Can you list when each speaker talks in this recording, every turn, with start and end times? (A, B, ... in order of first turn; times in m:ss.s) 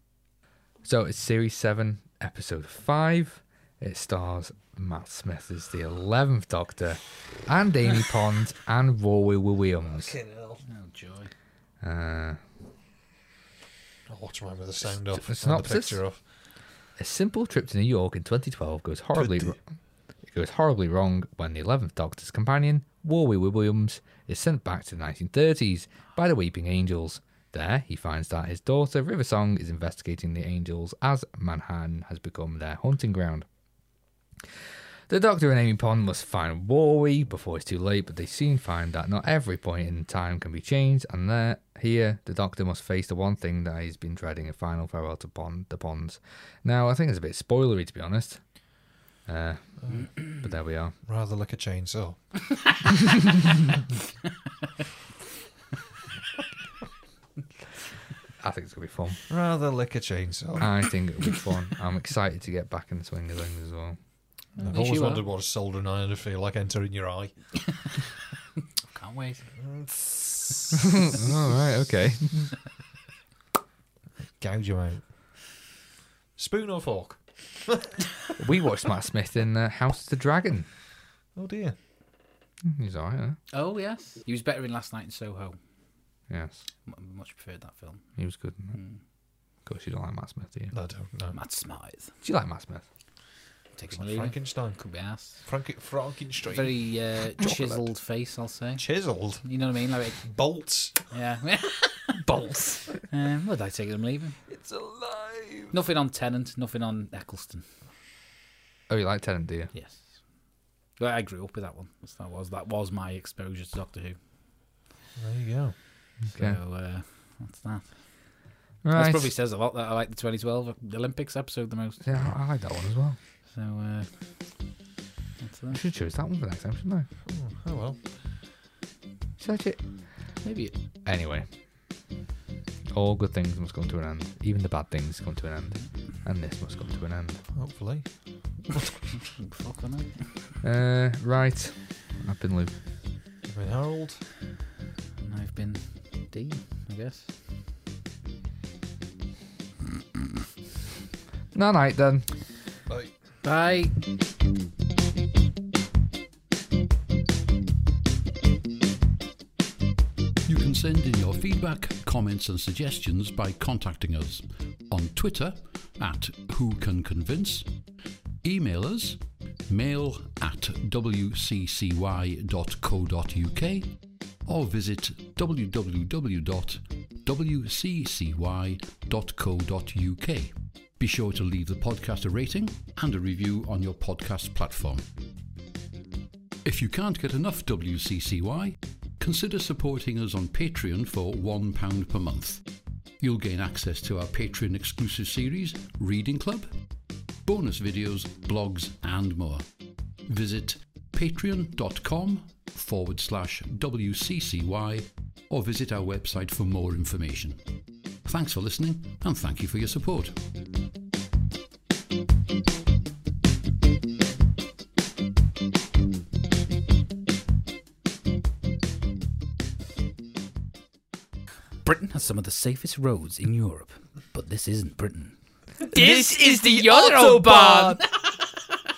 0:00.8-0:10.2 A
0:10.0-0:10.6 B
0:10.7-0:11.3 C
0:11.8-0:12.4 A
0:14.1-0:16.2 B
0:14.8-0:16.0 A
0:17.0-0:19.6 A
0:19.1-0:19.6 B
0:20.2-0:33.5 A
0:35.1-0:48.4 A
0:49.3-0:51.0 A
0:49.8-0:50.1 B
0:51.1-0:52.2 B
0:58.4-0:59.2 A
0:59.3-1:00.7 B
1:00.6-1:04.0 A
1:04.6-1:05.2 C
1:04.6-1:07.4 B
1:08.9-1:09.6 C
1:09.6-1:11.0 B
1:10.8-1:12.5 A
1:14.4-1:15.1 B
1:16.4-1:18.0 B
1:18.4-1:20.7 A
1:21.4-1:21.8 B
1:22.6-1:23.4 A
1:23.5-1:25.6 C
1:26.3-1:26.6 A
1:26.8-1:28.0 C
1:28.2-1:28.8 A
1:29.6-1:30.7 A
1:30.7-1:31.4 B
1:31.3-1:32.1 C
1:32.2-1:32.8 A
1:33.8-1:35.4 C
1:33.9-1:34.8 B
1:35.4-1:36.8 B
1:36.5-1:38.8 C
1:37.4-1:37.8 B
1:38.8-1:39.4 B
1:39.4-1:40.2 C
1:40.2-1:41.0 B
1:41.1-1:42.2 C
1:42.3-1:42.8 A
1:43.1-1:44.4 C
1:44.6-1:45.7 B
1:45.7-1:47.6 C
1:48.9-1:49.7 A
1:49.7-1:50.1 C
1:51.0-1:54.2 C
1:55.2-1:55.8 B
1:56.2-1:56.6 A
1:56.3-1:58.0 C
1:58.8-1:59.3 A
1:58.9-2:02.2 C
2:02.0-2:03.2 A
2:03.5-2:04.1 C
2:05.4-2:05.8 C
2:05.7-2:07.1 A
2:07.3-2:08.0 B
2:09.4-2:09.8 A
2:10.4-2:10.7 C
2:11.0-2:11.5 A
2:12.9-2:17.4 A
2:17.6-2:18.0 B
2:18.7-2:18.9 B
2:19.4-2:20.4 C
2:20.6-2:22.8 A
2:23.5-2:24.3 B
2:25.2-2:27.3 C
2:31.5-2:32.3 A
2:32.9-2:33.1 B
2:33.4-2:34.0 C
2:40.5-2:47.8 D
2:48.4-3:05.1 D
3:06.6-3:16.8 D
3:17.4-3:30.4 D
3:41.8-3:48.1 C
3:45.9-3:48.0 A